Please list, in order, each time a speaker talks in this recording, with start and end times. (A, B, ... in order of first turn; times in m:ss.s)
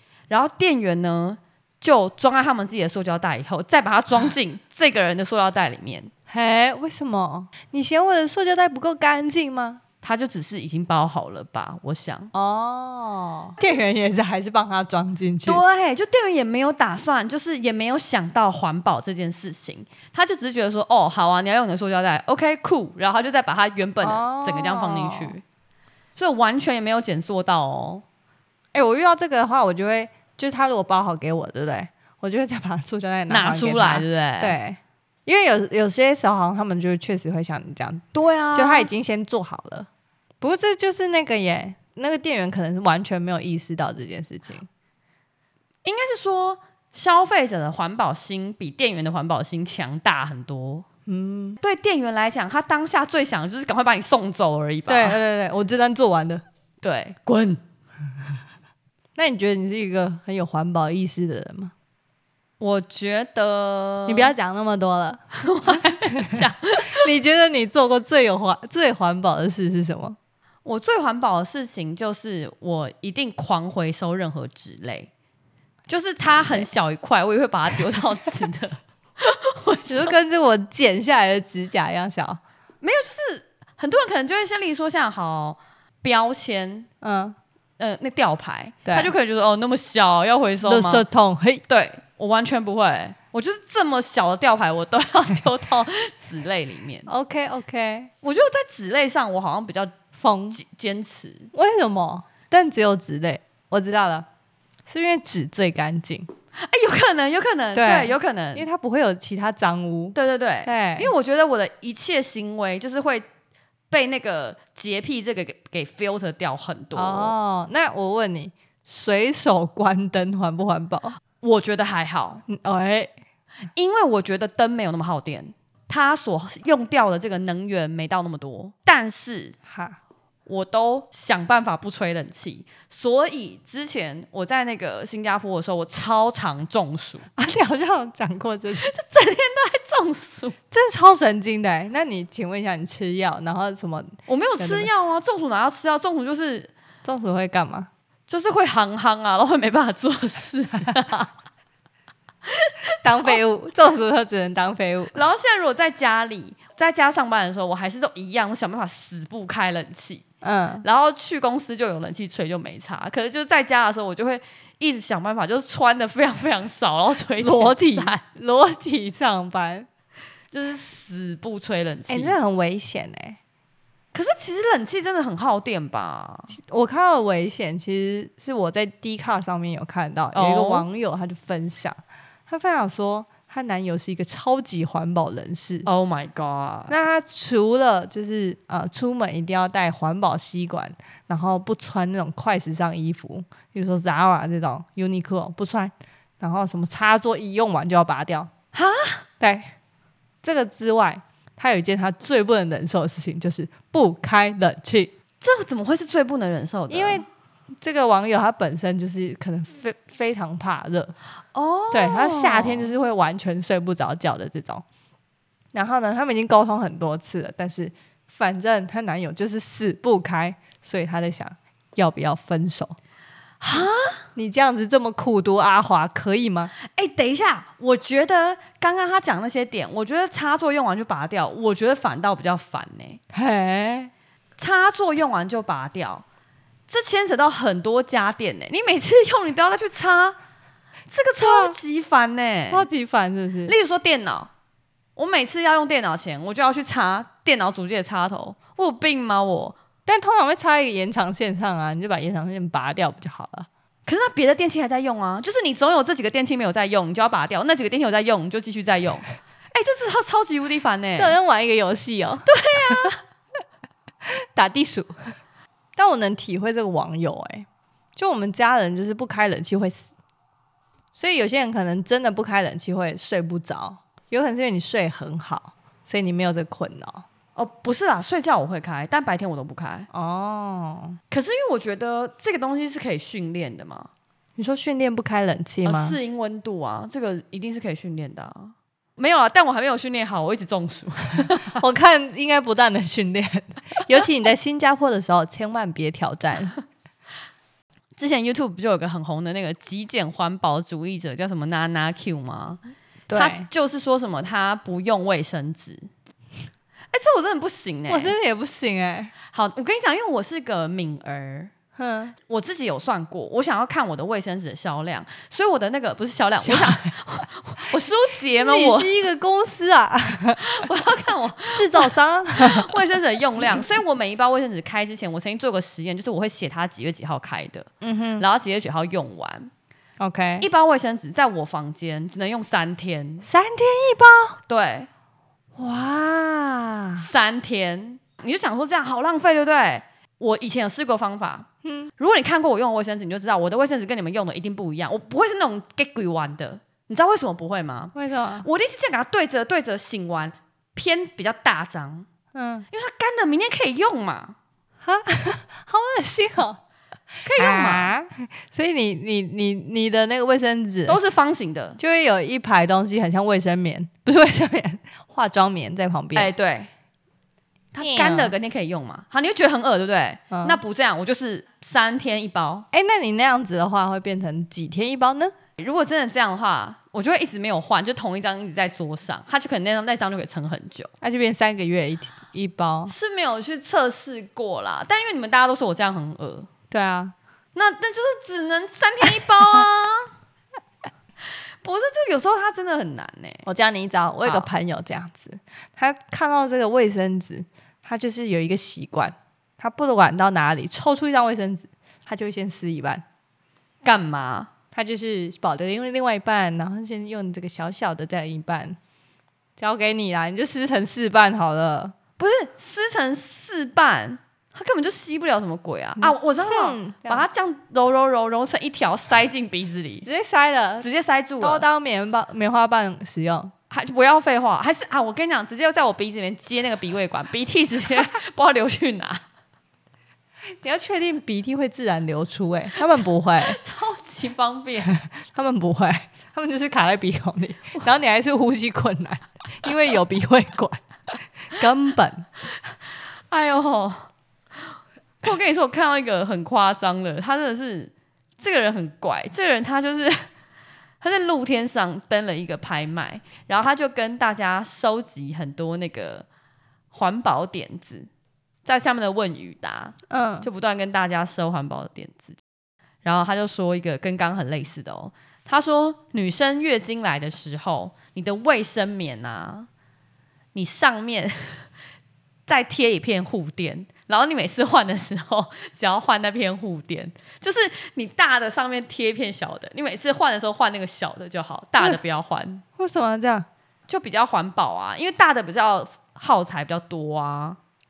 0:00.3-0:06.1 A
0:06.3-0:09.8 B
0:10.0-0:12.3 A
0:12.3-0:15.6 B
0:15.4-0:25.4 A
0:24.0-0:25.3 B
0:26.2-0:28.0 A
0:28.7-0:39.9 B
0:33.3-0:34.6 A
0:38.1-0:38.9 A
0:40.4-0:44.7 B
0:45.8-0:50.8 A
0:51.0-0:51.6 B
0:51.6-0:55.2 A
0:54.9-0:56.4 B
0:56.8-0:57.6 A
0:59.2-1:01.7 B
1:02.6-1:04.3 A
1:04.1-1:10.2 B
1:05.3-1:07.1 A
1:10.6-1:15.1 A
1:15.9-1:20.1 A
1:16.3-1:16.7 B
1:19.9-1:22.4 B
1:22.8-1:26.9 A
1:27.0-1:27.4 B
1:27.8-1:31.0 A
1:28.8-1:29.1 B
1:30.6-1:31.6 B
1:31.7-1:37.1 A
1:37.1-1:38.1 B
1:38.2-1:39.9 A
1:40.1-1:40.6 B
1:40.5-1:41.5 A
1:41.5-1:44.3 B
1:44.8-1:46.3 B
1:46.6-1:48.6 A
1:47.7-1:51.1 B
1:50.1-1:53.2 A
1:53.9-1:57.3 A
1:56.9-2:01.2 B
2:01.4-2:02.4 A
2:02.5-2:03.1 B
2:03.7-2:09.6 A
2:09.7-2:10.0 B
2:10.5-2:17.3 A
2:17.4-2:18.9 B
2:18.7-2:20.6 A
2:20.7-2:24.9 B
2:24.3-2:26.7 A
2:27.0-2:27.9 B
2:28.3-2:31.3 A
2:32.5-2:33.4 A
2:33.0-2:35.1 B
2:35.1-2:40.2 A
2:40.4-2:40.8 B
2:40.8-2:48.2 A
2:47.4-2:49.9 B
2:50.5-2:52.4 A
2:52.1-2:53.4 B
2:54.1-2:56.5 A
2:56.5-3:05.9 B
3:00.3-3:00.8 A
3:05.8-3:06.9 A
3:06.9-3:18.5 B
3:18.7-3:19.2 A
3:19.4-3:19.7 B
3:20.4-3:25.1 B
3:25.4-3:27.2 A
3:26.9-3:27.2 B
3:27.8-3:31.1 B
3:31.5-3:32.9 A
3:31.9-3:34.8 B
3:35.7-3:43.0 B
3:43.6-3:44.2 A
3:44.3-3:46.7 B
3:46.8-3:53.2 A
3:53.3-3:54.1 B
3:54.6-3:56.2 A
3:56.9-4:00.4 A
4:01.1-4:02.8 A
4:01.4-4:01.8 B
4:02.7-4:03.7 B
4:03.6-4:04.5 A
4:05.2-4:09.8 A
4:10.0-4:13.7 B
4:14.0-4:21.4 A
4:21.2-4:23.1 B
4:22.4-4:23.2 A
4:24.2-4:25.3 B
4:26.0-4:30.1 B
4:31.2-4:37.2 B
4:37.6-4:40.1 A
4:40.1-4:41.2 B
4:41.3-4:44.1 A
4:44.6-4:46.2 B
4:45.8-4:51.8 A
4:51.7-4:56.7 B
4:58.2-5:02.8 A
5:03.3-5:03.7 B
5:03.3-5:06.1 A
5:07.1-5:08.3 A
5:08.1-5:09.3 B
5:09.5-5:11.7 A
5:12.0-5:12.3 B
5:12.5-5:19.1 A
5:16.6-5:17.0 B
5:18.6-5:20.7 B
5:20.6-5:29.7 A
5:21.7-5:22.9 B
5:28.0-5:28.4 B
5:30.2-5:30.6 B
5:30.6-5:33.4 A
5:33.4-5:34.6 B
5:34.7-5:35.1 A
5:35.8-5:37.3 B
5:37.2-5:52.3 A
5:41.8-5:42.1 B
5:48.1-5:48.6 B
5:52.5-5:52.9 B
5:52.9-5:54.6 A
5:55.0-5:56.8 B
5:57.4-5:58.1 A
5:57.5-6:01.2 B
6:01.0-6:02.0 A
6:02.0-6:06.5 B
6:06.3-6:06.9 A
6:07.9-6:12.8 A
6:08.0-6:08.5 B
6:10.5-6:10.8 B
6:12.9-6:15.5 B
6:15.8-6:21.1 A
6:21.2-6:23.1 B
6:23.1-6:26.7 A
6:26.9-6:27.3 B
6:27.7-6:30.3 A
6:31.8-6:33.7 A
6:33.6-6:43.2 B
6:44.0-6:44.7 A
6:44.9-6:49.0 B
6:49.8-6:52.1 B
6:52.4-7:00.3 A
6:56.2-6:57.4 B
7:00.2-7:01.0 B
7:01.0-7:01.8 A
7:01.6-7:03.7 B
7:03.9-7:09.4 A
7:10.8-7:13.8 B
7:13.1-7:15.2 A
7:15.3-7:21.0 B
7:21.6-7:22.4 B
7:23.5-7:24.3 A
7:25.4-7:30.5 A
7:31.2-7:36.4 A
7:37.1-7:38.3 A
7:38.8-7:42.6 A
7:40.3-7:40.7 B
7:43.2-7:49.9 A
7:50.7-7:51.9 A
7:52.7-8:02.8 A
8:03.0-8:03.7 B
8:04.1-8:07.8 A